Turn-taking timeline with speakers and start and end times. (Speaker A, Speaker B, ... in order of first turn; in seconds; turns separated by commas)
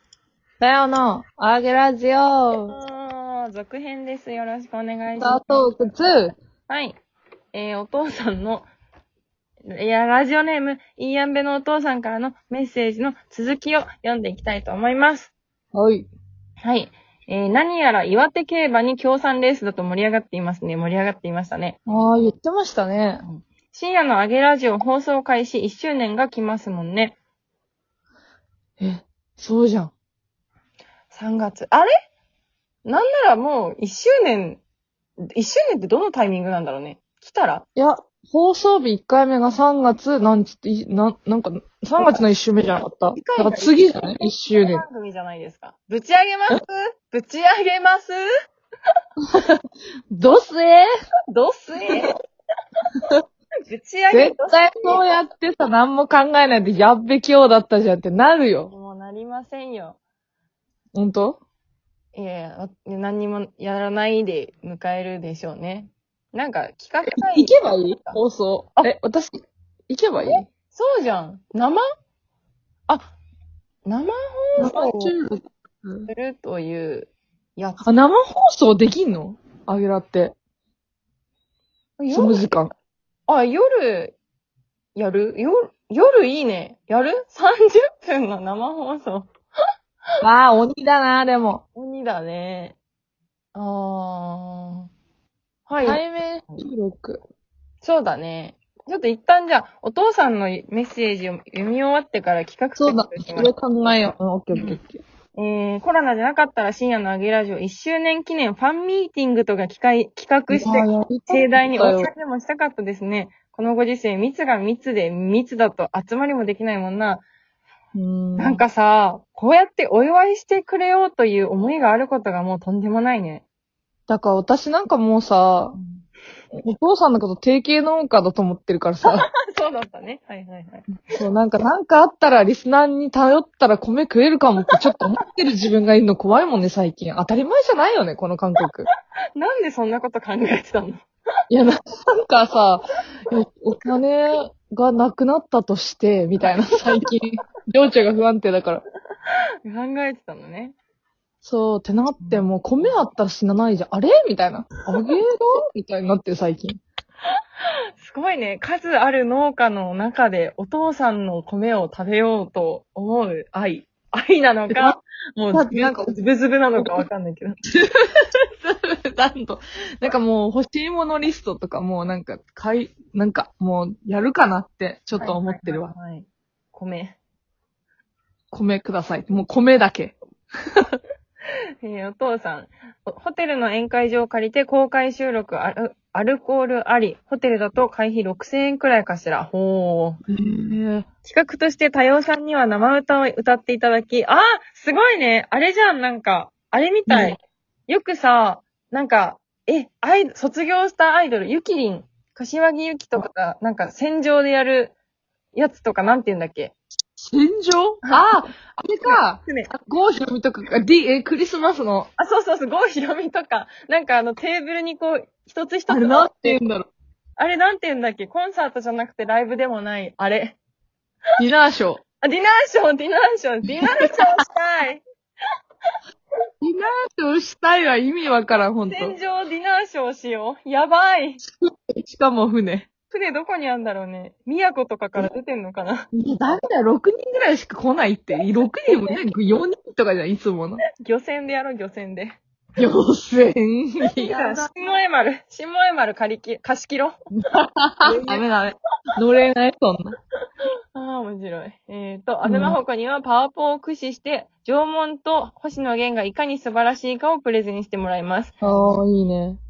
Speaker A: 0.6-2.7, Speaker B: 2.7-5.7, Speaker A: 5.2-6.4, Speaker B: 6.7-7.0, Speaker B: 7.5-8.7, Speaker B: 9.7-15.3, Speaker A: 15.7-16.1, Speaker B: 16.6-21.8, Speaker A: 21.9-23.2, Speaker B: 23.2-27.1, Speaker A: 28.8-29.9, Speaker B: 31.1-31.9, Speaker B: 32.9-34.6, Speaker B: 35.3-37.6, Speaker A: 37.8-44.8, Speaker B: 42.0-42.2, Speaker B: 43.1-48.2, Speaker A: 49.3-49.6, Speaker A: 50.1-50.9, Speaker B: 51.3-52.1, Speaker B: 53.7-55.0, Speaker A: 54.1-58.7, Speaker B: 58.7-60.0, Speaker A: 60.9-61.4, Speaker B: 62.1-68.2, Speaker A: 67.2-70.5, Speaker B: 70.2-71.8, Speaker B: 72.9-73.1, Speaker B: 73.8-75.1, Speaker A: 74.6-76.1, Speaker B: 76.1-77.9, Speaker A: 77.8-80.3, Speaker B: 82.0-82.5, Speaker A: 82.1-82.7, Speaker B: 83.3-84.2, Speaker B: 84.9-89.3, Speaker A: 90.2-91.6, Speaker B: 91.7-92.8, Speaker B: 93.5-94.9, Speaker B: 95.7-96.6, Speaker A: 95.8-97.2, Speaker B: 97.8-103.5, Speaker A: 102.8-105.0, Speaker B: 104.5-104.8, Speaker B: 105.3-117.2, Speaker A: 110.5-112.1, Speaker A: 117.9-118.6, Speaker B: 118.4-123.4, Speaker A: 124.1-125.8, Speaker B: 125.8-126.0, Speaker A: 126.5-129.3, Speaker B: 129.1-130.9, Speaker A: 131.1-138.9, Speaker B: 139.3-141.0, Speaker A: 141.5-148.8, Speaker B: 146.4-147.1, Speaker B: 149.6-150.7, Speaker A: 151.4-156.8, Speaker B: 152.2-152.9, Speaker B: 158.0-167.6, Speaker A: 165.5-166.2, Speaker A: 166.8-167.1, Speaker A: 167.7-175.9, Speaker B: 175.2-177.2, Speaker A: 178.5-180.2, Speaker B: 181.8-190.2, Speaker A: 190.3-191.1, Speaker B: 191.2-197.4, Speaker A: 197.1-197.3, Speaker B: 197.9-204.9, Speaker B: 205.5-206.7, Speaker A: 207.2-212.1, Speaker B: 209.0-209.7, Speaker B: 212.2-216.6, Speaker A: 215.9-216.9, Speaker B: 217.4-220.6, Speaker A: 221.4-222.0, Speaker B: 222.2-225.0, Speaker A: 226.6-229.2, Speaker B: 228.8-231.4, Speaker A: 231.4-232.9, Speaker B: 233.1-236.1, Speaker A: 236.1-240.8, Speaker B: 238.9-239.2, Speaker B: 241.0-242.4, Speaker A: 242.8-244.7, Speaker B: 244.1-247.1, Speaker A: 247.4-248.7, Speaker B: 248.0-248.7, Speaker A: 249.2-250.2, Speaker B: 250.9-258.5, Speaker A: 252.4-252.8, Speaker A: 258.6-259.6